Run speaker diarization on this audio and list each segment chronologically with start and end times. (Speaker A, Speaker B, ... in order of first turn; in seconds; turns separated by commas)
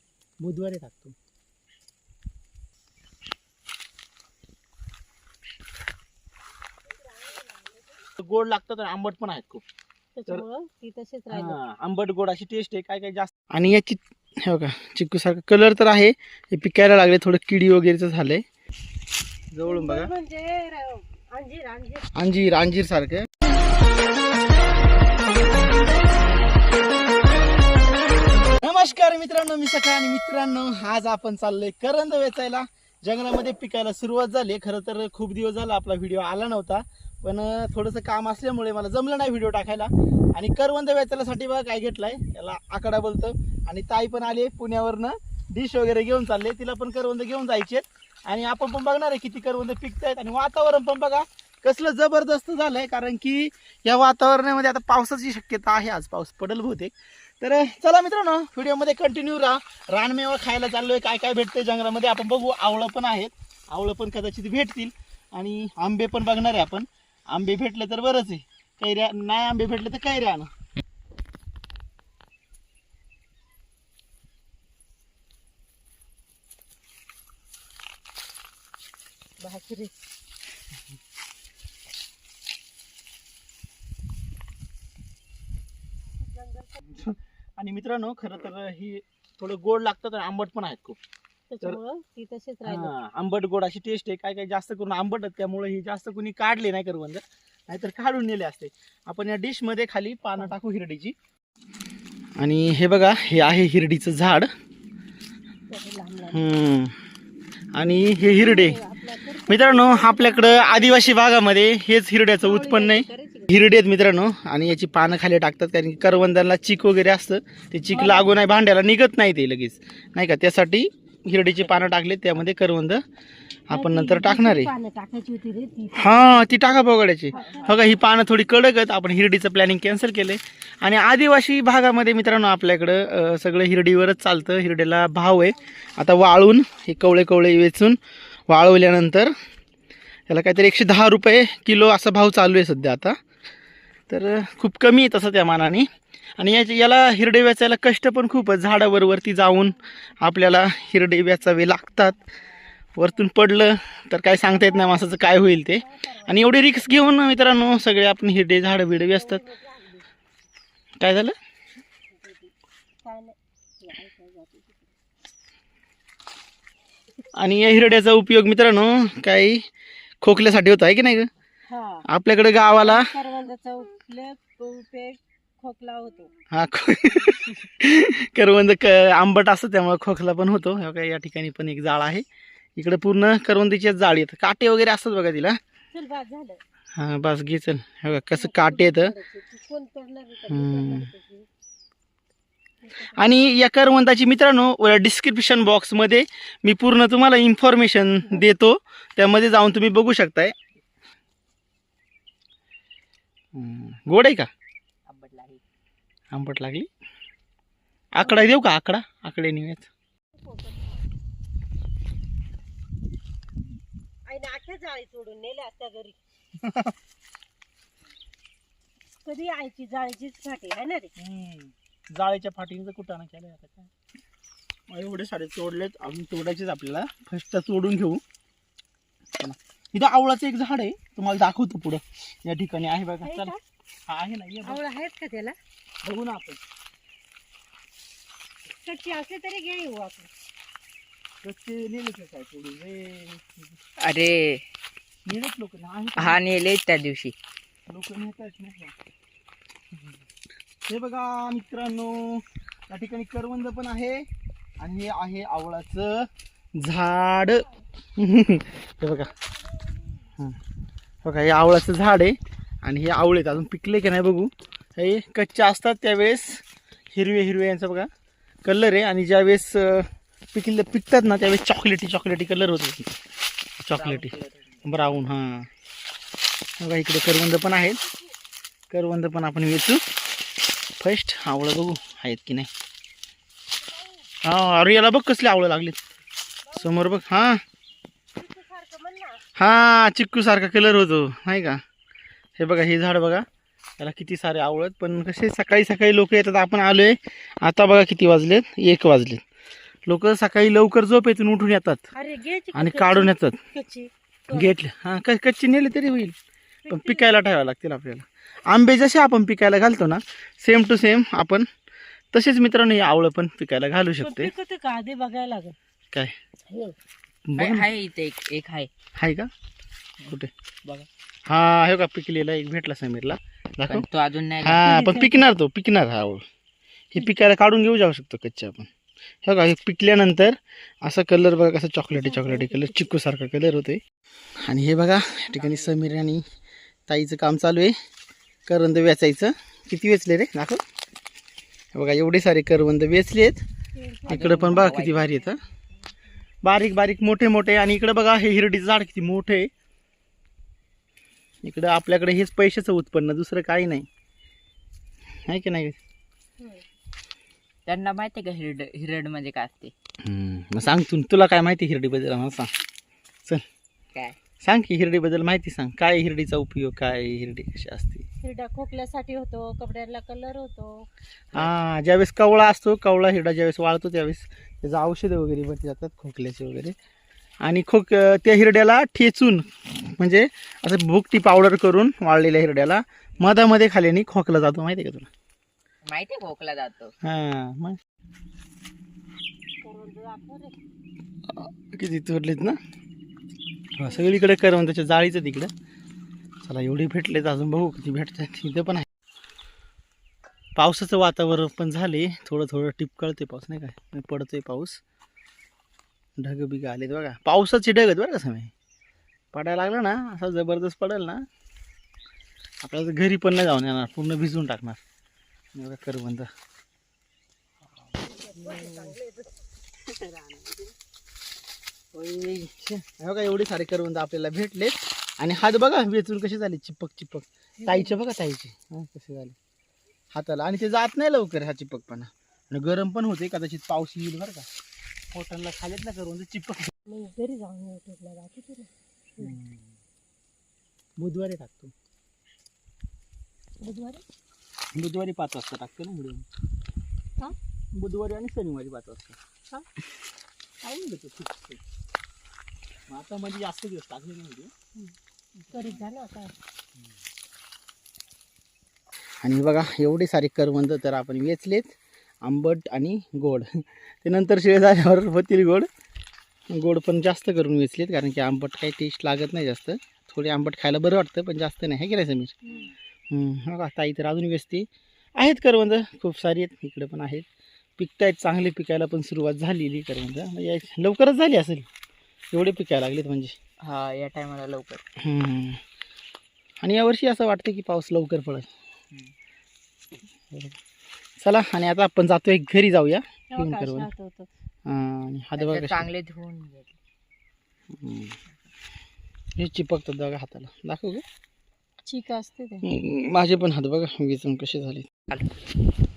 Speaker A: 0.4-1.1, Speaker B: 7.2-7.8, Speaker A: 8.2-9.6, Speaker B: 10.2-11.6, Speaker A: 11.3-18.4, Speaker A: 19.5-20.1, Speaker B: 19.6-22.1, Speaker A: 22.2-23.3, Speaker A: 28.6-70.5, Speaker B: 79.4-79.9, Speaker B: 86.2-86.8, Speaker A: 86.8-91.0, Speaker B: 91.5-92.9, Speaker A: 92.6-101.2, Speaker A: 102.4-104.5, Speaker B: 105.7-106.5, Speaker A: 106.3-106.9, Speaker A: 107.8-108.8, Speaker B: 108.3-111.2, Speaker A: 109.5-123.0, Speaker B: 112.4-113.5, Speaker B: 117.9-118.3, Speaker C: 121.6-121.8, Speaker A: 123.7-124.7, Speaker B: 123.7-126.5, Speaker A: 126.0-138.0, Speaker B: 127.3-128.0, Speaker C: 127.3-127.8, Speaker A: 138.5-139.3, Speaker A: 140.3-143.2, Speaker A: 144.1-152.2, Speaker A: 153.0-159.4, Speaker B: 154.5-157.1, Speaker B: 159.1-160.1, Speaker A: 161.0-161.3, Speaker B: 162.1-164.9, Speaker A: 167.3-169.6, Speaker A: 170.2-171.3, Speaker B: 171.7-172.1, Speaker A: 172.1-173.1, Speaker B: 172.8-176.3, Speaker A: 176.5-185.6, Speaker B: 185.9-186.6, Speaker A: 186.9-189.1, Speaker B: 188.3-191.5, Speaker A: 190.5-191.1, Speaker B: 192.8-193.6, Speaker A: 193.2-200.6, Speaker A: 203.5-204.5, Speaker C: 205.1-205.6, Speaker A: 206.3-206.9, Speaker A: 208.1-209.9, Speaker B: 208.2-208.5, Speaker B: 210.4-211.0, Speaker B: 214.3-216.2, Speaker A: 216.6-216.9, Speaker B: 219.2-221.1, Speaker A: 221.2-223.9, Speaker A: 224.9-228.2, Speaker A: 229.4-233.5, Speaker B: 233.2-233.6, Speaker A: 234.1-234.8, Speaker B: 234.7-235.6, Speaker A: 236.0-236.6, Speaker B: 238.8-240.3, Speaker A: 241.4-243.8, Speaker C: 244.0-244.6, Speaker A: 245.3-246.4, Speaker C: 246.2-247.3, Speaker A: 247.9-248.9, Speaker A: 250.9-254.3, Speaker A: 254.8-259.3, Speaker A: 261.2-268.1, Speaker A: 268.6-273.2, Speaker A: 273.9-275.7, Speaker C: 273.9-274.8, Speaker A: 276.8-278.0, Speaker A: 278.9-280.0, Speaker A: 281.0-282.7, Speaker B: 283.8-284.2, Speaker A: 284.4-286.0, Speaker B: 286.7-286.9, Speaker A: 286.8-287.6, Speaker B: 288.4-289.4, Speaker A: 289.6-291.8, Speaker A: 292.6-293.4, Speaker A: 294.0-299.4, Speaker A: 300.1-302.0, Speaker B: 302.1-304.8, Speaker A: 302.7-303.6, Speaker A: 304.5-306.4, Speaker B: 306.9-307.3, Speaker A: 306.9-311.7, Speaker A: 312.3-314.5, Speaker B: 314.2-315.8, Speaker B: 316.7-316.9, Speaker A: 317.5-317.9, Speaker C: 317.6-318.9, Speaker A: 319.2-319.5, Speaker A: 321.5-324.1, Speaker C: 323.9-324.8, Speaker A: 324.6-326.4, Speaker B: 324.8-325.5, Speaker A: 327.1-328.9, Speaker A: 329.4-334.0, Speaker B: 332.2-332.9, Speaker A: 334.6-336.4, Speaker C: 335.5-336.0, Speaker A: 337.1-337.9, Speaker A: 338.7-340.8, Speaker A: 341.9-343.6, Speaker B: 343.9-345.9, Speaker A: 344.3-345.6, Speaker C: 344.3-345.3, Speaker A: 346.6-349.7, Speaker A: 351.6-354.1, Speaker A: 355.5-356.0, Speaker C: 357.9-359.9, Speaker A: 360.2-362.7, Speaker A: 364.6-368.3, Speaker B: 368.4-371.1, Speaker A: 371.5-376.9, Speaker A: 377.6-385.3, Speaker C: 386.1-387.1, Speaker A: 387.2-388.0, Speaker B: 389.8-390.8, Speaker A: 391.5-392.8, Speaker A: 394.0-395.7, Speaker A: 396.6-399.1, Speaker A: 400.8-405.0, Speaker A: 406.4-408.7, Speaker A: 409.5-411.4, Speaker A: 412.8-415.0, Speaker A: 415.8-416.5, Speaker B: 418.2-419.6, Speaker A: 418.7-419.1, Speaker A: 422.1-429.6, Speaker B: 427.8-428.1, Speaker A: 430.3-434.7, Speaker A: 435.3-436.9, Speaker B: 437.1-439.6, Speaker A: 439.4-440.0, Speaker A: 441.2-441.9, Speaker B: 443.8-444.2, Speaker A: 444.9-446.5, Speaker A: 447.9-449.4, Speaker A: 450.8-451.8, Speaker A: 453.1-454.7, Speaker A: 455.7-456.0, Speaker B: 455.7-456.6, Speaker A: 459.4-465.9, Speaker A: 466.7-472.6, Speaker A: 473.3-477.5, Speaker A: 478.0-481.9, Speaker A: 482.5-483.6, Speaker C: 483.8-485.0, Speaker A: 485.2-485.8, Speaker A: 486.8-488.7, Speaker A: 490.5-490.8, Speaker A: 491.4-494.1, Speaker B: 493.5-494.5, Speaker A: 494.9-496.1, Speaker C: 495.6-497.0, Speaker A: 497.9-498.4, Speaker A: 499.6-501.2, Speaker B: 502.1-502.9, Speaker A: 502.8-505.1